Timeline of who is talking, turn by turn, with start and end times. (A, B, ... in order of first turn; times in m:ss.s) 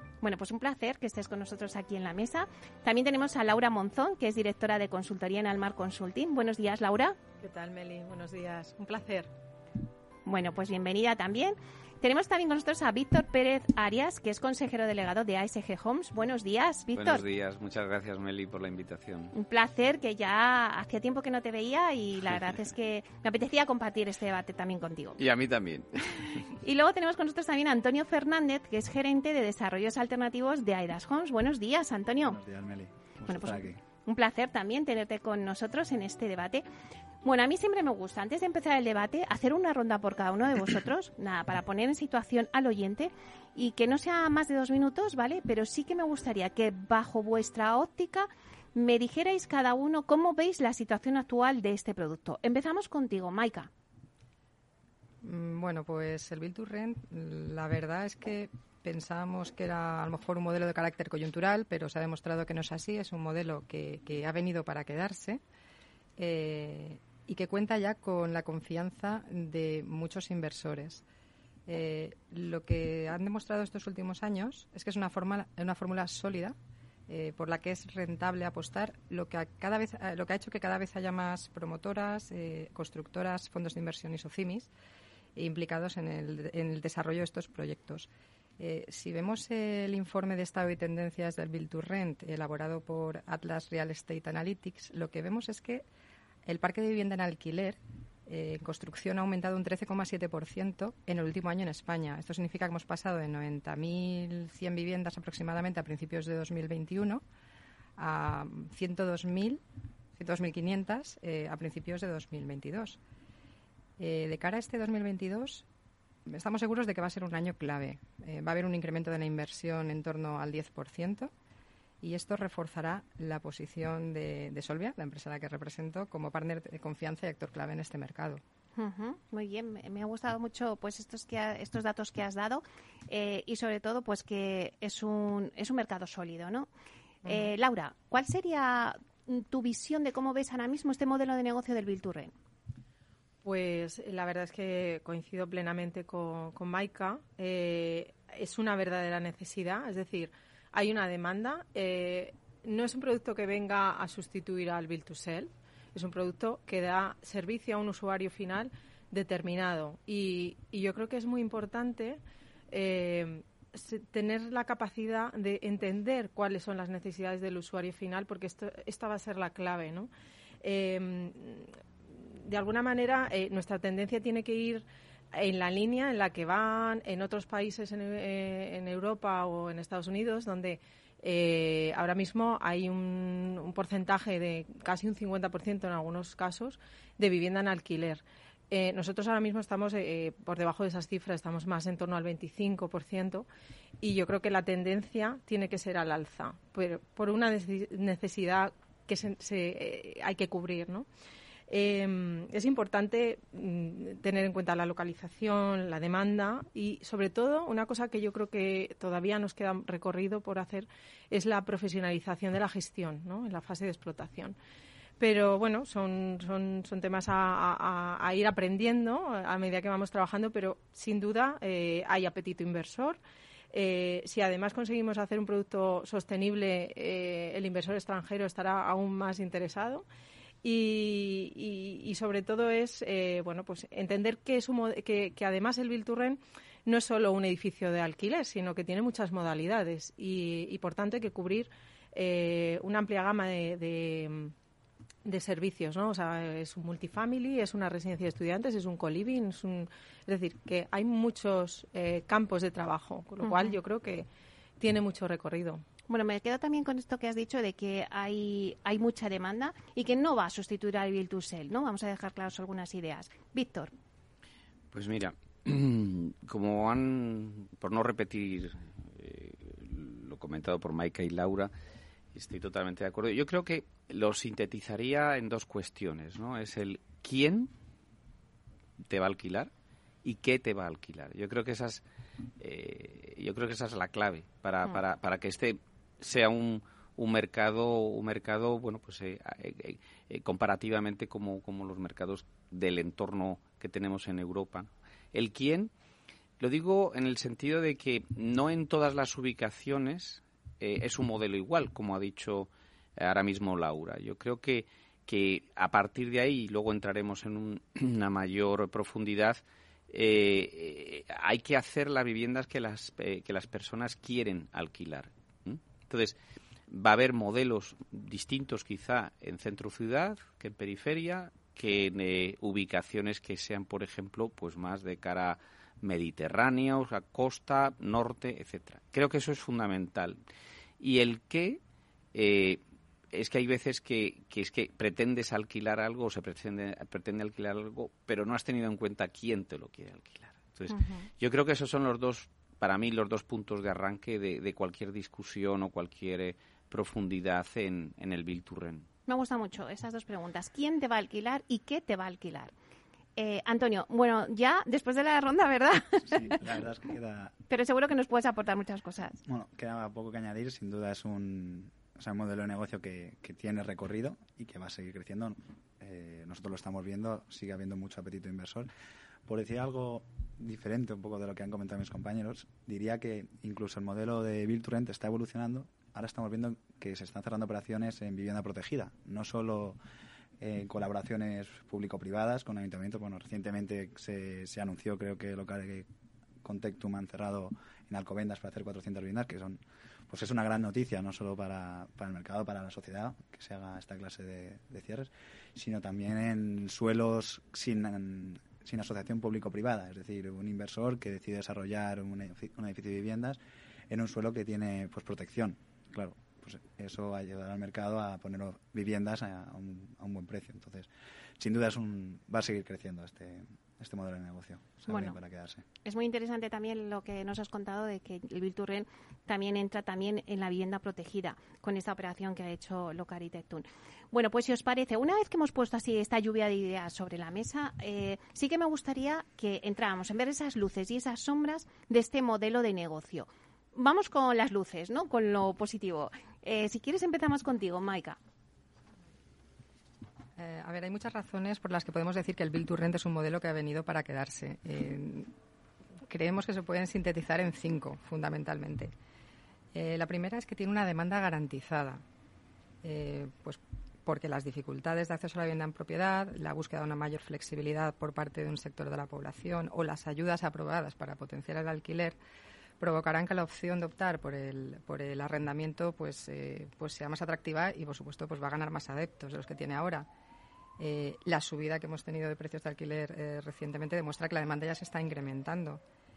0:00.2-0:07.2 A
0:07.4-0:09.3 B
0:10.2-0:17.2 A
0:16.9-0:19.3 C
0:19.3-0:25.2 A
0:25.2-0:26.4 C
0:26.6-0:32.4 A
0:32.2-0:33.8 D
0:33.2-0:36.6 A
0:37.2-0:53.7 A
0:55.2-1:05.4 E
1:06.2-1:11.0 E
1:11.7-1:16.6 E
1:17.1-1:24.7 E
1:25.4-1:28.1 E
1:28.6-1:35.8 E
1:36.4-1:47.2 E
1:48.0-1:49.6 E
1:50.2-1:53.0 E
1:54.0-1:55.7 E
1:56.2-2:01.3 E
2:02.0-2:08.4 E
2:08.8-2:16.7 A
2:17.2-2:22.3 A
2:17.2-2:17.5 B
2:23.4-2:42.2 B
2:42.7-2:50.1 B
2:50.6-2:51.7 B
2:52.4-3:13.5 B
3:14.0-3:21.0 B
3:21.7-3:34.6 B
3:35.2-3:43.2 B
3:43.7-3:50.0 B
3:50.6-4:04.5 B
4:05.2-4:14.3 B
4:13.4-4:13.7 A
4:14.8-4:15.8 B
4:16.1-4:23.9 A
4:24.9-4:31.7 C
4:32.3-4:37.7 C
4:39.1-4:39.7 C
4:40.2-4:42.0 C
4:42.6-4:55.9 C
4:56.6-5:16.4 C
5:16.9-5:30.4 C
5:31.0-5:31.8 C
5:32.3-5:32.8 C
5:33.3-5:49.1 C
5:49.3-5:52.7 A
5:53.4-5:56.6 A
5:56.2-5:57.6 D
5:57.7-5:59.4 A
5:59.5-6:08.9 D
6:09.5-6:20.0 D
6:20.6-6:26.1 D
6:26.6-6:51.1 D
6:51.6-6:55.8 D
6:55.1-6:55.4 A
6:56.0-7:18.4 A
7:20.6-7:25.5 E
7:26.3-7:29.1 E
7:29.9-7:32.2 E
7:33.0-7:42.4 E
7:43.0-7:50.3 E
7:51.0-7:56.0 E